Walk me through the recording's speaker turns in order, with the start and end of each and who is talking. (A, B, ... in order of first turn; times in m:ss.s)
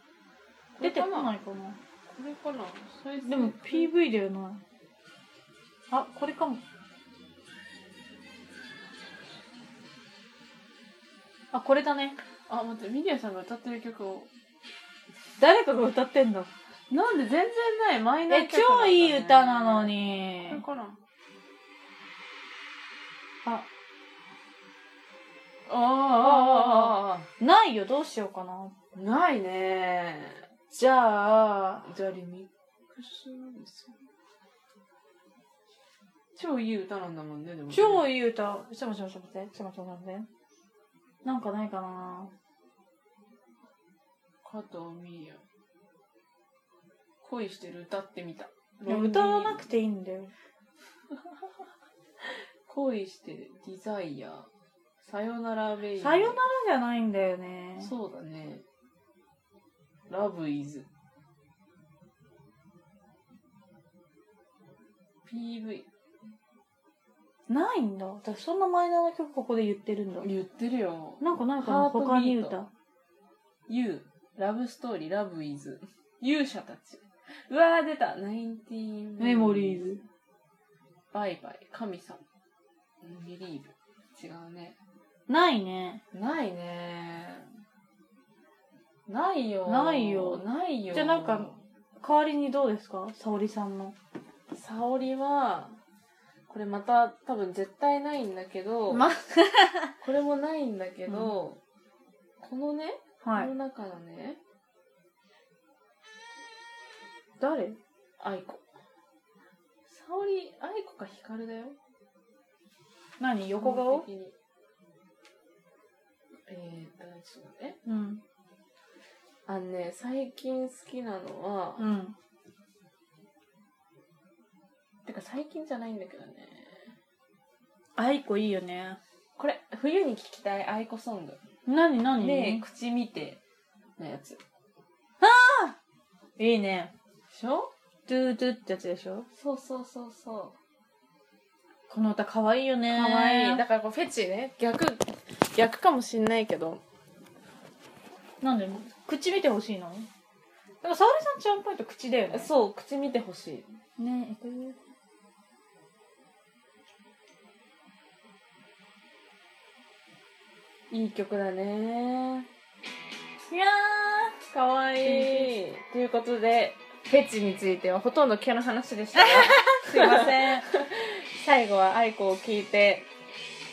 0:00.8-0:01.3 A
0:00.8-0:01.8 B
0:02.1-0:03.9 A
0:03.2-0:04.6 B
0:05.9-0:06.6 B
0:11.5-0:12.2 B
0:12.5-0:14.3 A
0:15.4-0:16.5 B
0:16.9-0:21.0 A
0:18.3-0:20.6 B
0:25.7-0:27.3 A
0:26.2-0:28.7 B
0:28.9-0:30.4 A
0:30.7-0:31.9 B
0:31.8-0:34.0 A
0:36.4-0:38.0 A
0:37.7-0:40.3 B
0:41.2-0:42.3 B
0:44.4-0:45.4 A
0:47.2-0:49.6 A
0:48.9-0:50.3 B
0:52.2-0:54.5 A
0:55.0-0:56.4 A
0:56.0-0:57.9 B
0:57.8-0:58.6 A
1:00.1-1:00.9 A
1:05.2-1:05.9 A
1:07.5-1:10.3 B
1:10.2-1:12.6 A
1:11.2-1:12.7 B
1:13.7-1:19.9 A
1:19.2-1:20.0 B
1:21.1-1:22.2 A
1:23.0-1:24.8 A
1:25.3-1:26.0 B
1:26.1-1:27.5 A
1:29.1-1:31.6 A
1:29.7-1:34.0 B
1:34.5-1:35.8 A
1:36.5-1:39.1 A
1:38.9-1:39.9 B
1:40.0-1:41.6 A
1:41.1-1:41.3 B
1:42.4-1:44.4 A
1:43.2-1:43.5 B
1:47.4-1:47.8 B
1:48.2-1:48.6 A
1:49.9-1:51.8 A
1:53.2-1:54.0 B
1:53.6-1:54.4 A
1:56.5-1:57.8 A
1:57.8-1:58.2 B
1:59.5-2:01.8 A
2:01.8-2:02.2 B
2:05.0-2:06.9 A
2:08.0-2:09.0 B
2:09.4-2:11.4 A
2:11.7-2:12.6 B
2:12.2-2:13.4 A
2:14.0-2:14.4 A
2:15.2-2:15.8 B
2:16.4-2:16.9 B
2:17.3-2:17.7 A
2:18.1-2:19.3 B
2:19.3-2:20.6 A
2:21.9-2:23.6 B
2:22.9-2:26.8 A
2:28.4-2:30.1 B
2:30.8-2:32.5 B
2:32.3-2:33.7 A
2:34.0-2:34.8 B
2:40.9-2:42.5 A
2:43.5-2:44.4 B
2:44.4-2:53.1 A
2:45.0-2:45.5 B
2:49.2-2:50.7 B